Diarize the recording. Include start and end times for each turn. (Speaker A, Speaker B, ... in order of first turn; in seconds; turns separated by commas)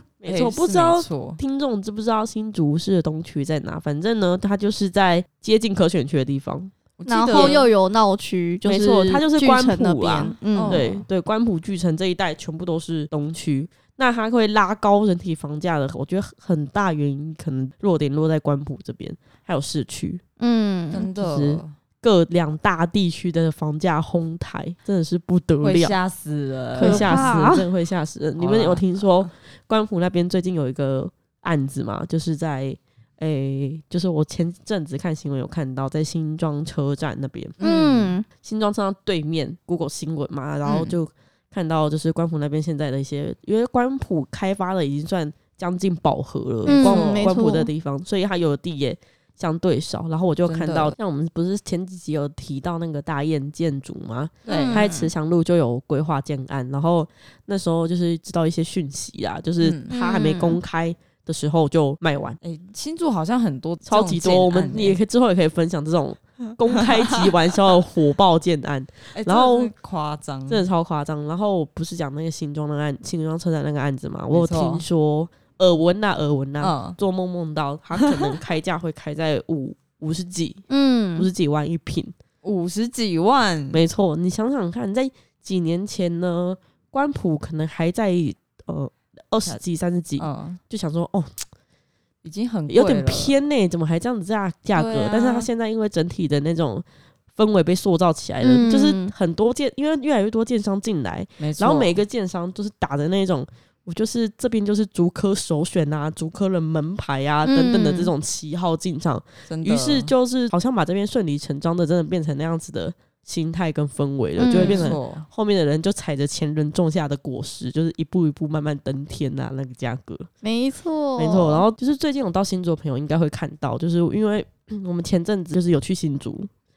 Speaker A: 0.2-6.7, Speaker B: 0.2-1.4, Speaker B: 7.0-7.7, Speaker C: 7.1-10.9, Speaker A: 7.3-7.6, Speaker A: 8.6-20.2, Speaker B: 10.5-11.0, Speaker C: 20.4-21.1, Speaker B: 20.9-21.7, Speaker A: 21.1-25.9, Speaker B: 25.6-27.2, Speaker A: 26.8-37.6, Speaker C: 26.8-27.6, Speaker B: 28.4-28.9, Speaker B: 37.6-38.1, Speaker C: 37.6-38.2, Speaker A: 38.4-62.4, Speaker B: 40.6-40.9, Speaker C: 46.6-47.7, Speaker B: 46.7-47.3, Speaker B: 50.5-50.9, Speaker B: 54.5-54.9, Speaker C: 54.5-55.1, Speaker B: 59.6-59.9, Speaker C: 59.9-60.6, Speaker B: 62.4-65.0, Speaker A: 63.9-69.7, Speaker B: 66.7-67.3, Speaker B: 69.1-70.7, Speaker A: 70.5-80.6, Speaker B: 74.3-74.8, Speaker B: 76.6-77.0, Speaker B: 78.0-78.3, Speaker C: 80.7-81.3, Speaker A: 81.2-82.1, Speaker B: 82.4-83.8, Speaker A: 83.7-91.4, Speaker B: 90.2-90.6, Speaker B: 92.2-93.3, Speaker A: 92.7-120.3, Speaker B: 94.7-95.5, Speaker C: 98.4-99.1, Speaker B: 101.4-101.9, Speaker C: 107.4-108.1, Speaker B: 109.5-110.1, Speaker C: 114.4-114.9, Speaker B: 114.5-115.2, Speaker C: 120.4-121.6, Speaker A: 121.2-126.5